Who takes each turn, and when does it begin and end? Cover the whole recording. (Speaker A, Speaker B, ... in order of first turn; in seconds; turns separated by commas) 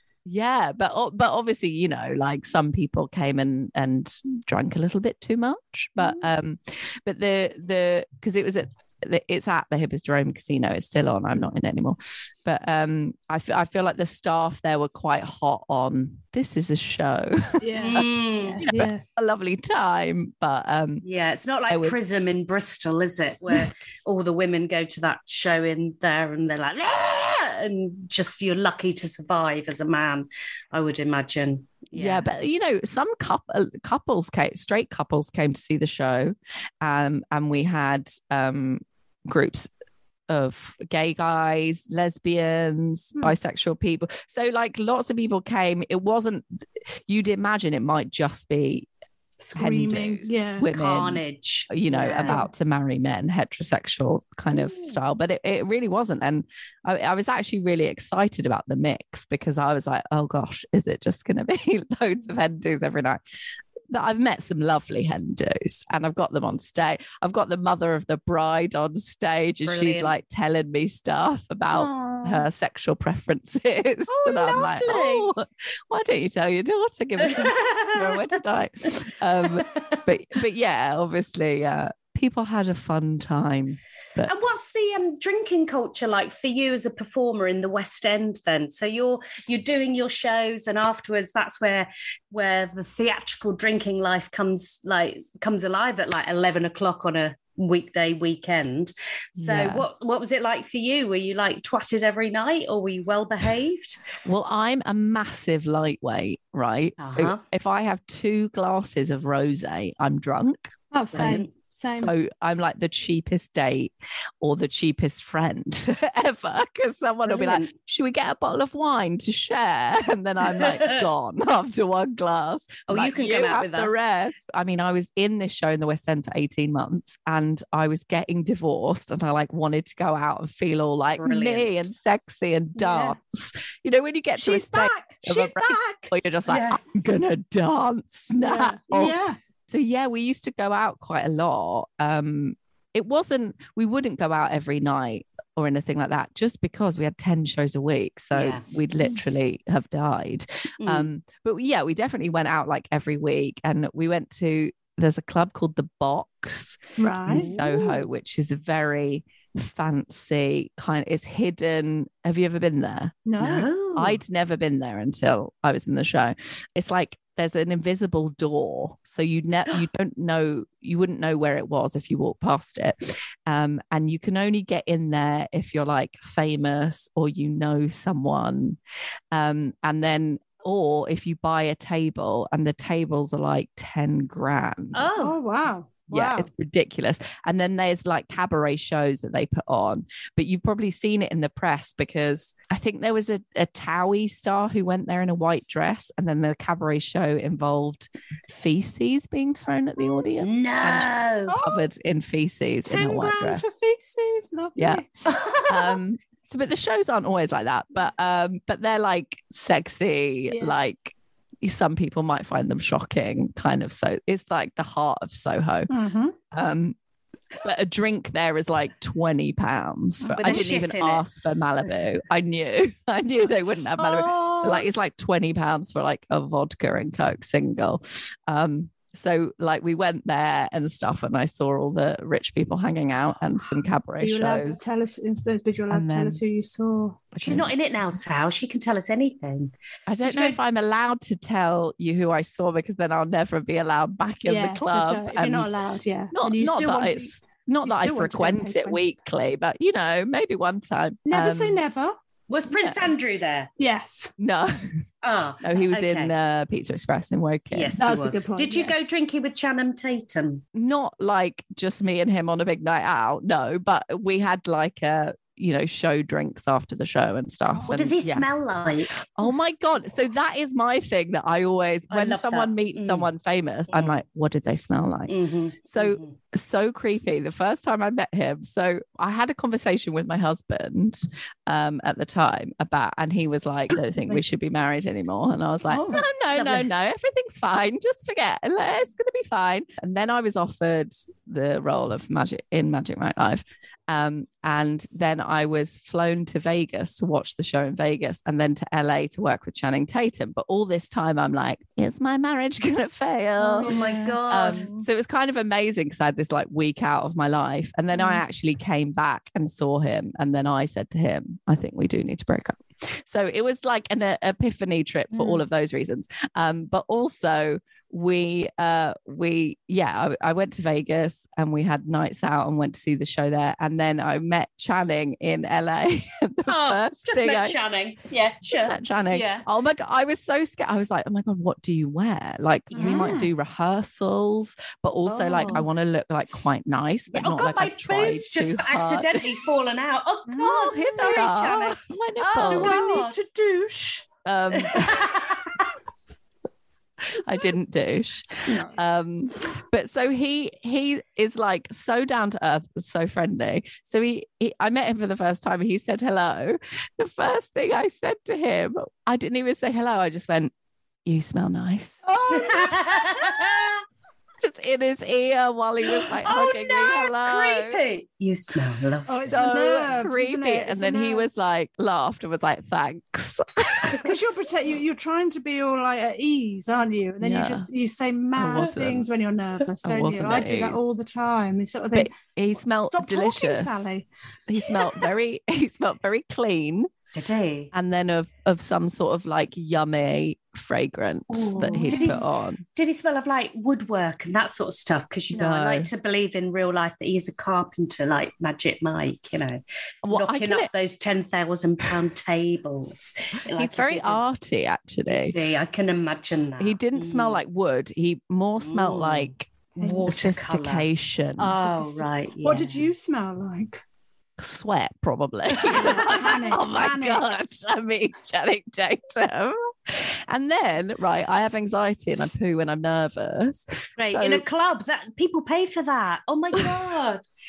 Speaker A: 0.3-18.1, Speaker B: 6.0-6.3, Speaker C: 17.6-19.0, Speaker B: 17.8-18.6, Speaker A: 18.6-21.1, Speaker B: 21.0-32.3, Speaker A: 21.7-21.9, Speaker A: 31.9-39.7, Speaker A: 40.3-48.9, Speaker C: 49.4-50.7, Speaker A: 49.5-63.2, Speaker B: 50.7-52.4, Speaker B: 54.5-55.0, Speaker A: 63.9-84.4, Speaker B: 69.7-70.1, Speaker C: 71.7-72.5, Speaker B: 74.1-75.3, Speaker B: 77.2-78.2, Speaker B: 79.6-80.0, Speaker B: 84.2-104.0, Speaker A: 99.4-99.9, Speaker A: 104.2-111.4, Speaker B: 107.0-107.4, Speaker C: 110.9-112.2, Speaker B: 111.1-111.5, Speaker A: 112.0-139.2, Speaker B: 117.2-117.7, Speaker B: 120.5-121.0, Speaker B: 122.9-124.0, Speaker B: 131.2-131.8, Speaker C: 132.8-133.2, Speaker C: 134.4-136.2, Speaker B: 136.5-136.8, Speaker C: 138.4-139.4, Speaker A: 139.7-163.2, Speaker B: 148.3-148.6, Speaker B: 150.8-151.1, Speaker C: 157.0-157.5, Speaker B: 157.3-157.9, Speaker C: 163.2-163.7, Speaker B: 163.4-164.2, Speaker A: 163.9-178.8, Speaker A: 179.3-185.1, Speaker B: 184.9-185.4, Speaker C: 185.2-186.5, Speaker A: 186.1-203.6, Speaker B: 200.4-201.5, Speaker C: 201.5-201.8, Speaker C: 202.8-205.8, Speaker A: 204.8-205.0, Speaker B: 205.3-205.6, Speaker A: 205.7-215.9, Speaker C: 210.5-210.8, Speaker C: 215.9-216.3, Speaker A: 216.5-217.0, Speaker A: 217.6-234.8, Speaker C: 220.2-220.8, Speaker B: 220.3-221.2, Speaker C: 224.0-224.8, Speaker C: 234.2-237.4, Speaker A: 235.9-236.4, Speaker A: 237.3-237.7, Speaker B: 237.4-239.7, Speaker A: 240.1-245.8, Speaker C: 240.2-240.6, Speaker C: 244.4-249.0, Speaker A: 246.3-251.8, Speaker C: 251.2-252.2, Speaker B: 252.5-253.7, Speaker A: 252.7-253.1, Speaker C: 253.8-254.3, Speaker A: 254.4-254.8, Speaker B: 255.2-256.3, Speaker A: 255.6-258.1, Speaker B: 257.7-260.6, Speaker C: 258.0-259.0, Speaker A: 260.7-268.5, Speaker B: 267.9-269.2, Speaker A: 269.4-327.8, Speaker B: 272.1-273.3, Speaker B: 273.9-274.2, Speaker B: 275.3-276.4, Speaker C: 285.9-286.2, Speaker B: 286.5-286.9, Speaker B: 303.6-305.0, Speaker C: 303.8-304.9, Speaker B: 326.7-329.6, Speaker A: 328.7-339.6, Speaker B: 332.9-333.4, Speaker C: 332.9-333.5, Speaker B: 335.2-335.9, Speaker B: 337.3-343.4, Speaker C: 340.5-341.8, Speaker A: 340.6-343.0, Speaker C: 342.5-344.3, Speaker A: 344.4-345.3, Speaker B: 344.7-345.9, Speaker A: 347.3-360.7, Speaker A: 361.2-362.2, Speaker C: 362.2-363.3, Speaker B: 362.5-364.0, Speaker A: 364.6-368.0, Speaker B: 366.1-369.6, Speaker C: 369.3-371.5, Speaker A: 369.5-374.3, Speaker C: 374.1-382.3, Speaker A: 377.4-377.9, Speaker A: 378.6-379.3, Speaker A: 380.0-381.1, Speaker A: 382.1-384.1, Speaker C: 383.1-384.3, Speaker A: 384.7-387.1, Speaker B: 387.3-387.9, Speaker A: 387.9-392.8, Speaker B: 391.5-399.8, Speaker C: 391.8-392.4, Speaker A: 395.5-396.1, Speaker A: 400.2-400.9, Speaker B: 400.3-404.4, Speaker A: 403.7-405.6, Speaker B: 405.2-407.6, Speaker A: 406.8-411.8, Speaker B: 408.8-411.1, Speaker B: 411.6-413.1, Speaker C: 411.8-414.0, Speaker A: 414.6-424.6, Speaker C: 415.9-417.4, Speaker B: 424.2-427.4